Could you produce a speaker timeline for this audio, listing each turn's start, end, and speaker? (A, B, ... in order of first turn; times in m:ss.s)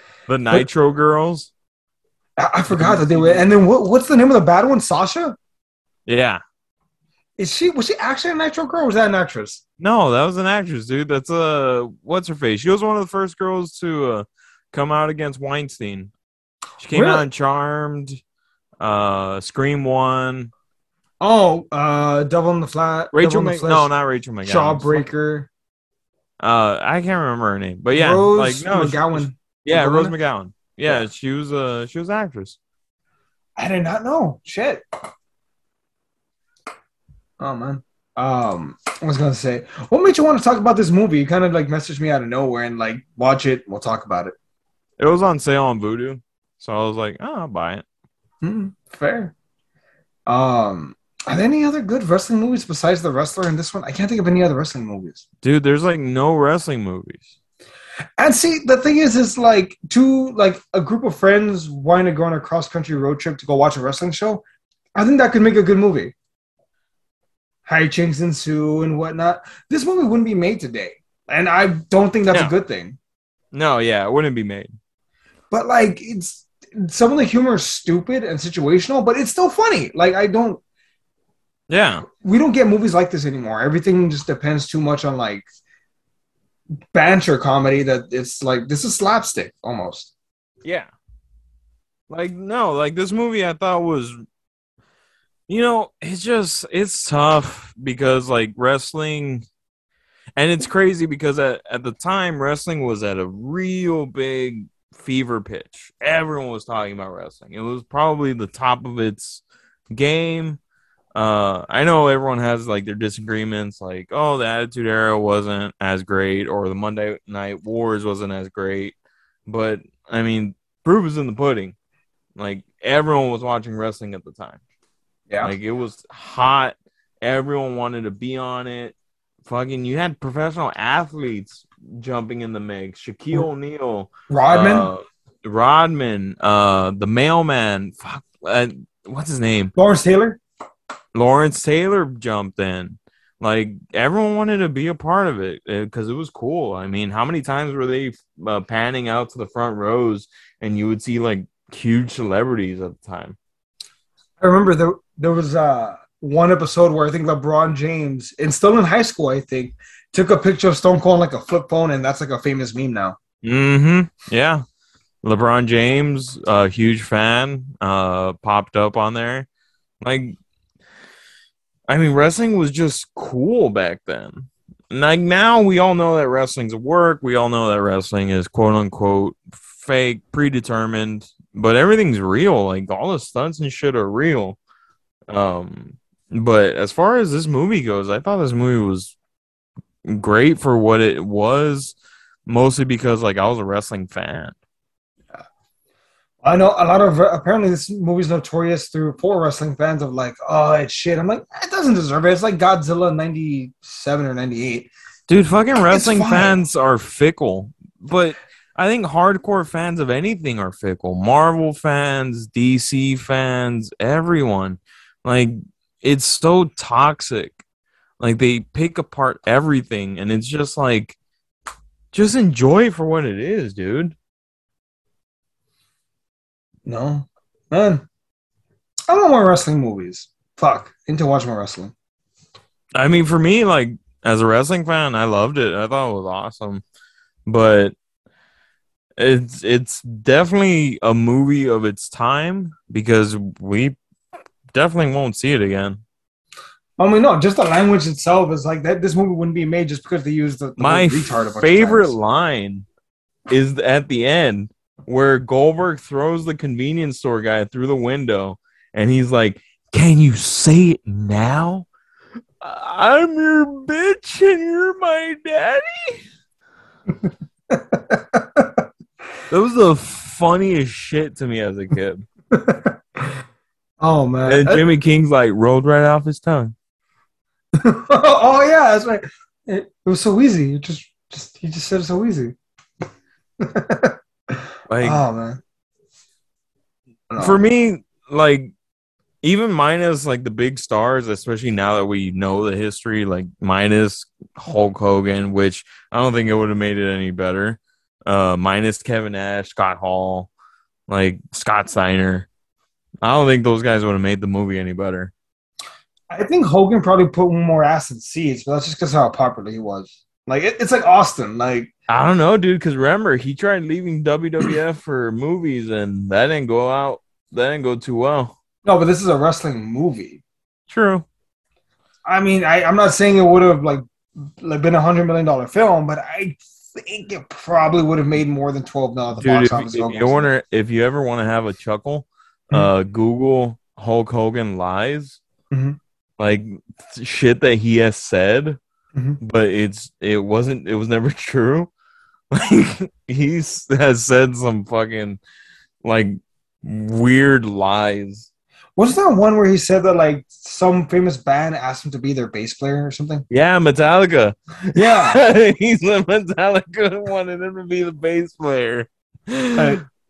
0:00.3-0:01.5 A
0:02.4-0:05.4 B
0:02.7-0:03.5 A
0:06.1-0:06.4 A
0:07.4-0:09.6 B
0:09.8-0:16.1 A
0:16.8-0:18.2 A
0:16.9-0:17.2 B
0:18.8-0:20.5 A
0:21.2-0:23.9 B
0:23.1-0:25.0 A
0:24.4-0:25.5 B
0:26.4-0:32.6 A
0:27.9-0:30.1 B
0:33.6-0:34.8 B
0:37.4-0:44.4 B
0:45.0-0:47.8 A
0:48.4-0:49.3 B
0:50.3-0:55.2 B
0:55.4-0:57.3 A
0:58.2-1:04.4 B
1:05.0-1:06.1 B
1:07.7-1:13.0 B
1:13.5-1:14.8 A
1:15.5-1:20.6 B
1:21.7-1:22.0 A
1:22.1-1:25.4 B
1:26.9-1:30.1 B
1:30.6-1:30.9 A
1:32.1-1:34.2 A
1:35.5-1:39.4 A
1:40.4-1:50.6 A
1:51.2-1:59.0 A
1:59.5-2:01.8 A
2:02.4-2:04.6 A
2:05.3-2:05.6 B
2:05.4-2:19.7 A
2:14.3-2:14.9 B
2:19.8-2:20.4 B
2:21.2-2:33.4 A
2:34.4-2:43.2 B
2:43.4-2:44.6 A
2:45.2-2:49.5 A
2:50.0-2:50.4 A
2:51.9-3:04.6 A
3:05.3-3:09.2 A
3:10.0-3:14.6 A
3:16.4-3:24.9 B
3:25.3-3:37.6 A
3:25.9-3:26.6 B
3:38.2-3:41.2 A
3:42.1-3:44.2 A
3:46.9-3:48.0 B
3:49.1-3:51.9 B
3:53.0-3:56.8 A
3:57.5-3:57.9 A
3:59.2-4:04.0 A
4:04.7-4:06.0 A
4:07.0-4:12.2 B
4:10.8-4:12.9 A
4:13.5-4:21.9 A
4:22.6-4:26.2 A
4:27.7-4:28.9 B
4:29.5-4:32.2 A
4:32.5-4:33.4 B
4:34.0-4:34.8 B
4:34.5-4:36.7 A
4:37.8-4:42.6 B
4:43.6-4:45.6 B
4:44.9-4:45.2 A
4:47.3-4:47.6 B
4:47.4-4:48.7 A
4:49.4-5:00.5 A
5:01.1-5:02.5 A
5:03.2-5:05.3 A
5:06.3-5:11.9 B
5:12.1-5:18.6 A
5:18.8-5:20.4 B
5:20.9-5:21.2 A
5:22.3-5:30.5 B
5:29.4-5:35.4 A
5:35.7-5:36.0 B
5:36.4-5:38.8 A
5:39.1-5:39.4 B
5:39.4-5:41.9 A
5:42.5-5:45.4 A
5:46.0-5:48.5 A
5:49.0-5:53.5 B
5:53.5-6:00.0 A
5:55.0-5:55.4 B
5:59.8-6:00.0 B